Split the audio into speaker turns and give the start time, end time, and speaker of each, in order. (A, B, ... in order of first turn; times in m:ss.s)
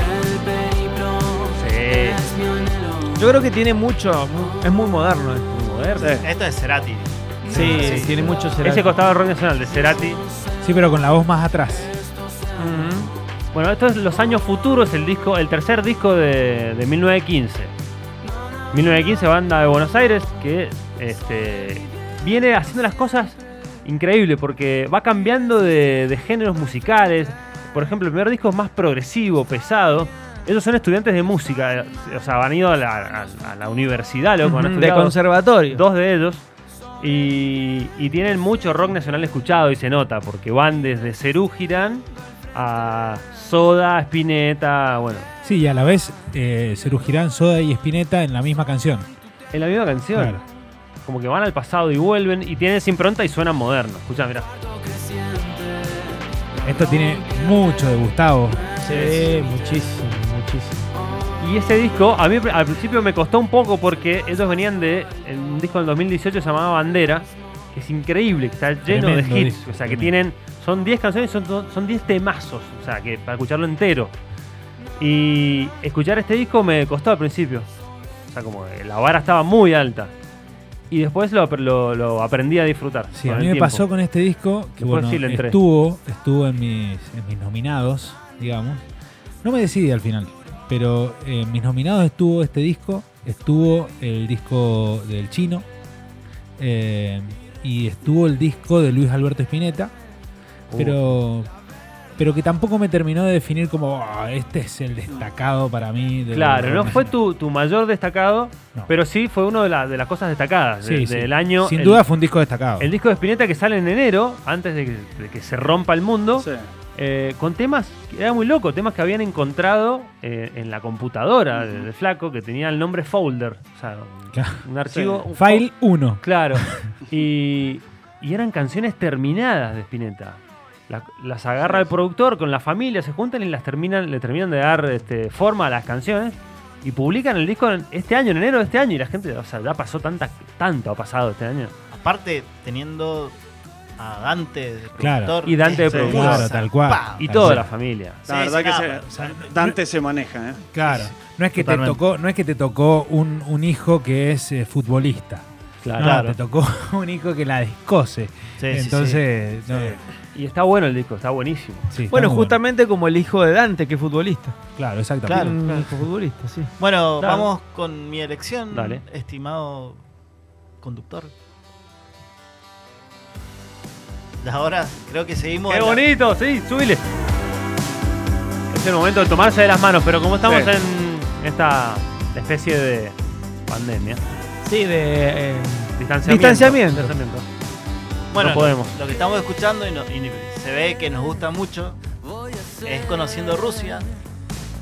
0:01.4-0:02.2 A
0:03.1-0:05.5 B
0:05.5-0:06.2 A
0:06.0-0:06.2 C
0:06.2-0:08.3 D
0:07.5-0:08.1 E
0:07.5-0:09.0 B
0:08.6-0:10.2 A
0:10.6-0:11.9 E
0:12.6-0:13.1 B
0:13.5-0:17.7 A
0:18.7-0:35.1 A
0:34.4-0:35.8 B
0:35.7-0:36.4 A
0:37.0-0:45.3 A
0:45.4-0:49.1 E
0:49.5-0:50.4 A
0:50.1-0:50.4 E
0:51.0-0:54.5 A
0:56.6-0:58.6 E
0:58.8-1:00.9 B
1:01.4-1:14.1 A
1:08.8-1:10.1 E
1:15.0-1:17.7 A
1:18.3-1:20.1 A
1:20.9-1:23.8 A
1:23.1-1:28.8 E
1:24.8-1:25.6 A
1:29.4-1:35.6 E
1:36.6-1:39.9 E
1:40.7-1:41.2 A
1:40.8-1:41.5 E
1:42.2-1:47.1 E
1:46.3-1:52.0 A
1:50.8-1:52.9 E
1:52.8-2:05.7 A
1:56.4-1:56.7 C
2:04.3-2:04.6 E
2:04.8-2:05.2 C
2:05.3-2:06.8 E
2:06.2-2:21.7 A
2:21.9-2:23.3 D
2:24.0-2:27.6 D
2:25.0-2:25.4 E
2:25.4-2:26.5 A
2:25.9-2:27.7 E
2:25.9-2:26.3 C
2:27.2-2:28.2 A
2:28.2-2:29.5 D
2:28.2-2:30.6 C
2:30.7-2:35.4 E
2:30.8-2:32.0 D
2:35.8-2:36.2 A
2:36.0-2:40.0 E
2:36.0-2:36.4 D
2:38.6-2:39.2 D
2:39.7-2:40.0 C
2:40.3-2:41.8 A
2:41.9-2:42.6 E
2:42.1-2:44.5 B
2:44.8-2:45.5 E
2:45.2-2:45.5 D
2:45.4-2:45.9 A
2:45.5-2:46.7 B
2:46.8-2:50.0 D
2:47.2-2:47.5 A
2:48.7-2:49.0 A
2:50.8-2:51.3 D
2:54.4-2:56.0 D
2:55.7-2:57.0 A
2:58.7-3:04.2 A
3:00.4-3:00.7 C
3:04.6-3:07.1 B
3:06.0-3:07.4 A
3:08.3-3:12.0 D
3:08.4-3:09.0 A
3:12.8-3:14.0 D